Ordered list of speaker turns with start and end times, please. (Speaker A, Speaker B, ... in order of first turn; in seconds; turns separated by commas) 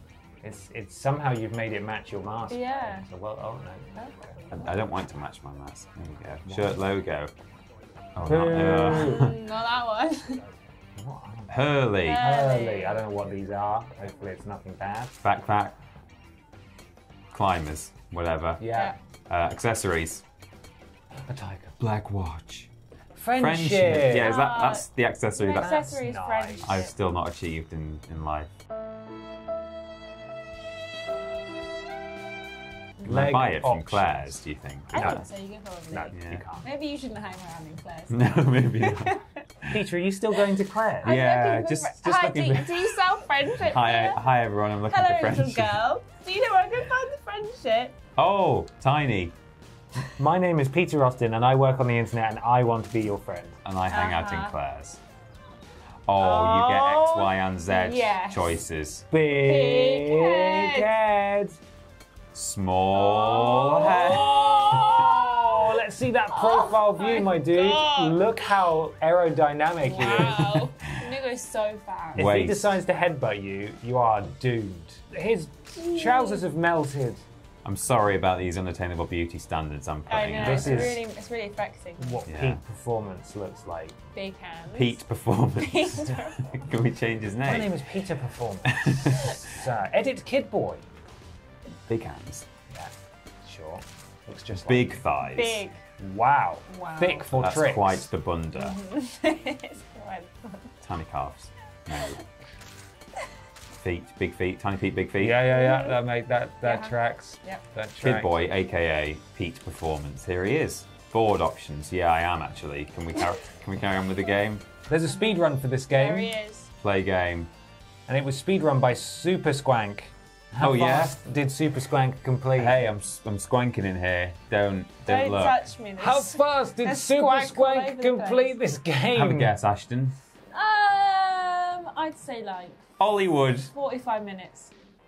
Speaker A: 0.4-4.3, Speaker B: 2.5-3.0, Speaker B: 4.0-4.7, Speaker C: 4.5-7.3, Speaker A: 6.5-6.8, Speaker C: 8.1-9.4, Speaker A: 8.2-9.3, Speaker B: 8.7-10.4, Speaker A: 10.9-15.2, Speaker C: 11.5-12.3, Speaker B: 12.0-13.1, Speaker C: 15.2-15.8, Speaker C: 17.3-18.7, Speaker A: 18.6-18.9, Speaker B: 18.7-18.9, Speaker C: 19.3-20.2, Speaker A: 21.3-21.8, Speaker C: 21.8-22.7, Speaker A: 23.1-24.3, Speaker C: 23.3-26.0, Speaker B: 24.1-26.9, Speaker A: 25.5-26.7, Speaker C: 26.6-28.5, Speaker A: 33.0-34.4, Speaker C: 33.0-35.2, Speaker B: 34.9-39.4, Speaker A: 34.9-35.2, Speaker A: 35.9-36.6, Speaker C: 36.1-36.4, Speaker C: 38.1-39.8, Speaker A: 39.7-41.1, Speaker C: 41.0-42.9, Speaker B: 41.0-48.0, Speaker C: 43.6-45.8, Speaker C: 48.1-49.3, Speaker A: 50.0-53.5, Speaker C: 53.6-55.0, Speaker B: 53.9-54.5, Speaker C: 56.1-59.0, Speaker B: 56.2-58.6, Speaker A: 59.1-61.6, Speaker B: 59.3-60.9, Speaker C: 62.3-65.2, Speaker B: 63.1-65.5, Speaker A: 63.7-70.4, Speaker B: 66.3-68.4, Speaker B: 69.8-72.3, Speaker C: 70.0-70.7, Speaker C: 72.1-72.8, Speaker A: 72.2-77.2, Speaker B: 75.7-76.4, Speaker C: 77.6-81.0, Speaker B: 80.1-82.2, Speaker A: 80.4-81.0, Speaker A: 82.0-84.0, Speaker C: 82.2-82.6, Speaker B: 84.1-85.0, Speaker C: 84.7-87.8, Speaker B: 85.6-86.5, Speaker A: 87.4-90.8, Speaker C: 88.7-89.4, Speaker C: 91.9-92.5, Speaker A: 93.4-95.0, Speaker C: 94.5-95.6, Speaker B: 95.3-95.8, Speaker A: 96.0-98.1, Speaker B: 96.7-97.2, Speaker C: 97.3-98.8, Speaker B: 98.5-100.7, Speaker C: 100.8-102.2, Speaker C: 103.8-105.4, Speaker A: 105.2-108.3, Speaker B: 105.5-106.0, Speaker B: 106.6-107.6, Speaker C: 108.0-114.6, Speaker A: 114.9-116.3, Speaker B: 115.1-116.7, Speaker C: 116.8-117.5, Speaker A: 118.1-122.8, Speaker C: 120.6-121.2, Speaker C: 122.5-125.6, Speaker B: 125.0-128.6, Speaker A: 126.0-129.5, Speaker C: 129.1-130.2, Speaker B: 130.5-132.8, Speaker C: 133.0-133.7, Speaker B: 133.7-134.7